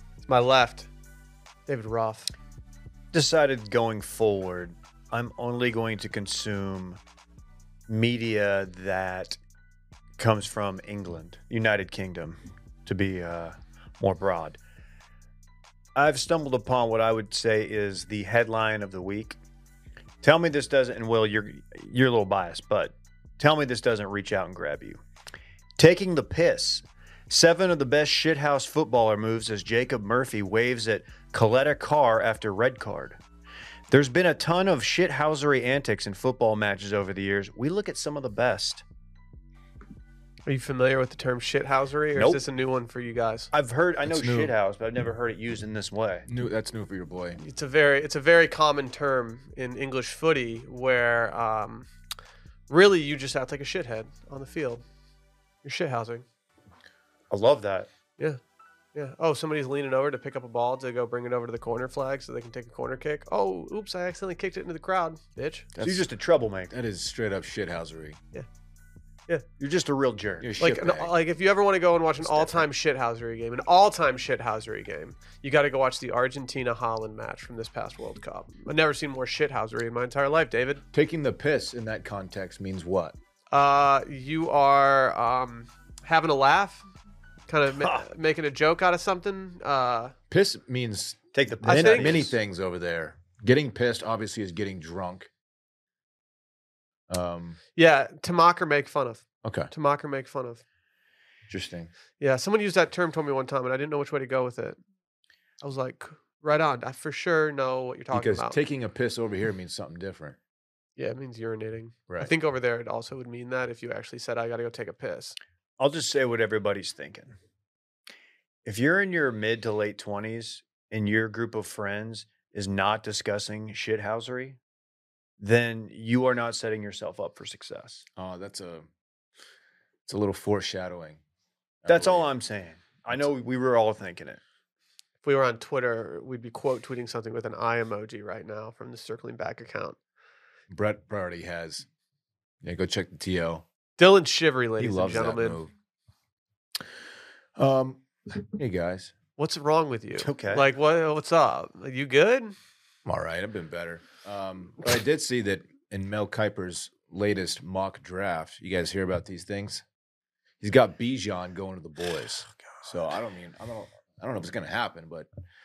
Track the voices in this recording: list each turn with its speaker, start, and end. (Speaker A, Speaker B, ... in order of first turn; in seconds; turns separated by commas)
Speaker A: 0.3-0.9, Speaker A: 1.7-2.3, Speaker B: 3.1-7.0, Speaker B: 7.9-9.4, Speaker B: 10.2-14.6, Speaker B: 15.9-19.4, Speaker B: 20.2-25.0, Speaker B: 25.8-33.2, Speaker B: 33.9-38.8, Speaker A: 40.5-43.5, Speaker B: 43.5-46.2, Speaker C: 44.0-44.5, Speaker C: 46.3-47.4, Speaker A: 47.4-51.9, Speaker A: 52.7-54.8, Speaker A: 55.6-56.2, Speaker B: 57.3-57.9, Speaker A: 58.9-65.7, Speaker C: 65.7-66.1, Speaker B: 65.8-66.7, Speaker C: 66.7-68.2, Speaker B: 69.6-70.5, Speaker C: 70.4-71.1, Speaker A: 70.6-80.8, Speaker B: 72.3-72.6, Speaker C: 80.9-83.1, Speaker A: 83.5-86.8, Speaker A: 87.5-90.1, Speaker B: 87.8-88.0, Speaker C: 90.3-95.3, Speaker B: 91.3-92.3, Speaker A: 91.7-92.2, Speaker C: 97.1-97.6, Speaker A: 97.8-100.6, Speaker C: 99.4-99.7, Speaker C: 101.5-101.9, Speaker A: 102.2-104.8, Speaker A: 105.6-108.6, Speaker C: 108.1-110.3, Speaker A: 111.0-115.3, Speaker B: 115.8-117.3, Speaker B: 118.6-124.6, Speaker B: 125.4-128.1, Speaker C: 128.2-128.9, Speaker C: 130.1-131.2, Speaker C: 131.8-132.3, Speaker B: 131.8-134.4, Speaker A: 135.2-140.0, Speaker C: 140.7-141.8, Speaker C: 142.6-143.6, Speaker A: 144.0-145.6, Speaker C: 144.8-145.7, Speaker C: 147.6-149.1, Speaker A: 149.4-152.5, Speaker B: 150.2-150.7, Speaker C: 153.1-159.8, Speaker C: 160.6-165.3